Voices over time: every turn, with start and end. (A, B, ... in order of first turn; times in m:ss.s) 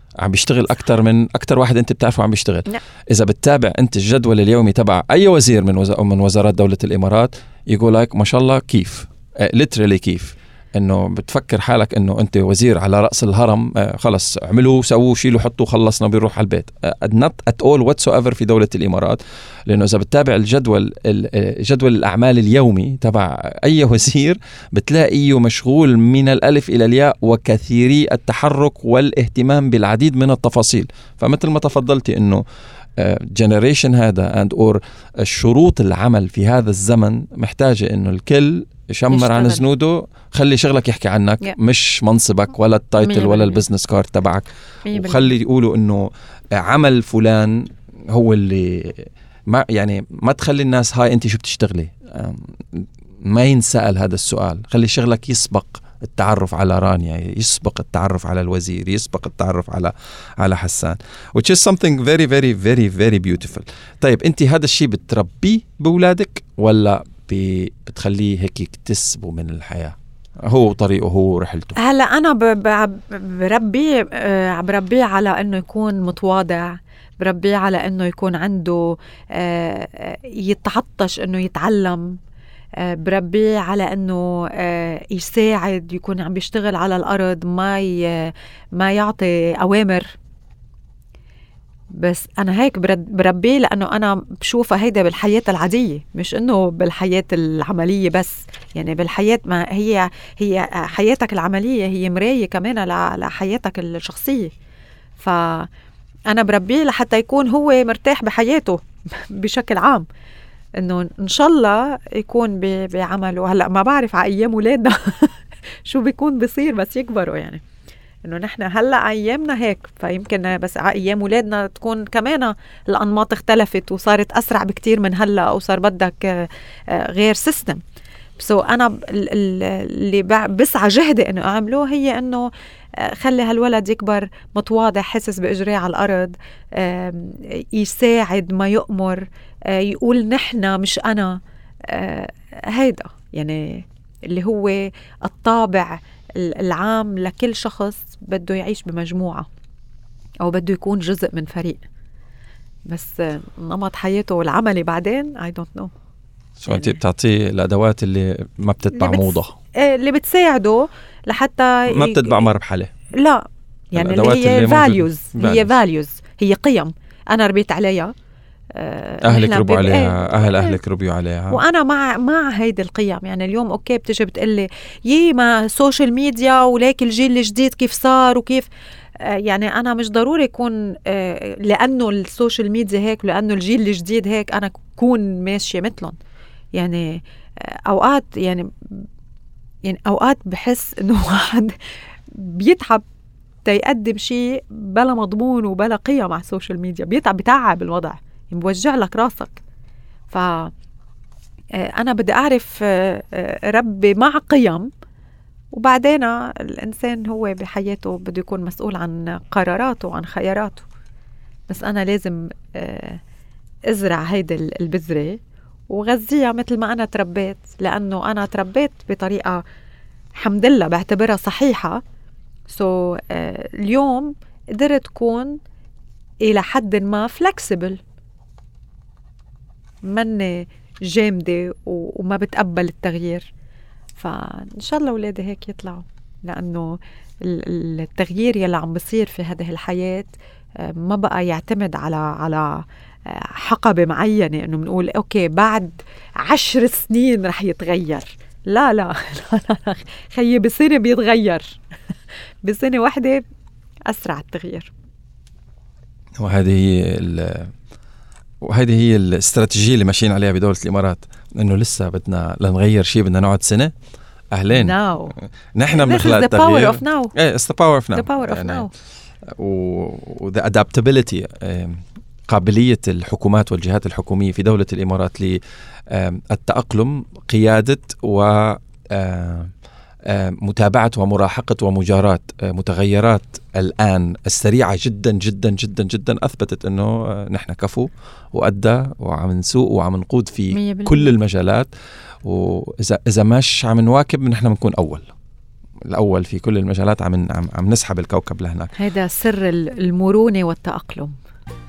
0:00.2-0:32.4 A
0:33.0-0:46.1 A
0:39.1-0:39.6 B
0:43.0-0:43.6 B
0:44.9-0:45.3 B
0:46.6-1:10.0 A
1:10.5-1:11.8 A
1:11.8-1:22.2 B
1:22.8-1:30.1 B
1:31.9-1:44.5 B
1:45.2-1:45.7 B
1:46.3-1:50.0 B
1:50.8-1:57.6 B
1:58.2-2:07.8 B
2:08.4-2:29.5 B
2:30.4-2:31.8 B
2:32.9-2:35.9 B
2:36.6-2:39.5 A
2:36.7-2:37.0 B
2:38.9-2:42.5 B
2:41.9-2:42.9 A
2:43.1-2:48.1 B
2:44.0-2:45.7 A
2:48.8-2:50.8 B
2:49.2-2:51.6 A
2:51.5-3:06.2 B
3:06.8-3:09.0 B
3:09.8-3:11.8 B
3:12.3-3:13.0 B
3:13.6-3:19.6 B
3:20.3-3:20.7 B
3:21.8-3:24.9 B
3:25.7-3:30.9 B
3:31.7-3:33.2 B
3:33.9-3:39.6 B
3:40.4-3:42.0 B
3:42.7-3:45.6 B
3:46.4-3:48.0 B
3:50.1-3:53.5 B
3:54.2-4:11.8 B
4:12.6-4:13.4 B
4:14.1-4:14.9 B
4:16.4-4:17.7 A
4:18.6-4:23.9 A
4:24.5-4:25.0 A
4:24.7-4:25.3 B
4:25.8-4:28.9 A
4:25.9-4:27.3 B
4:28.1-4:28.9 B
4:29.6-4:39.7 A
4:40.3-4:51.9 A
4:50.7-4:51.3 B
4:52.4-4:55.3 A
4:56.1-4:58.9 A
4:59.0-5:01.4 B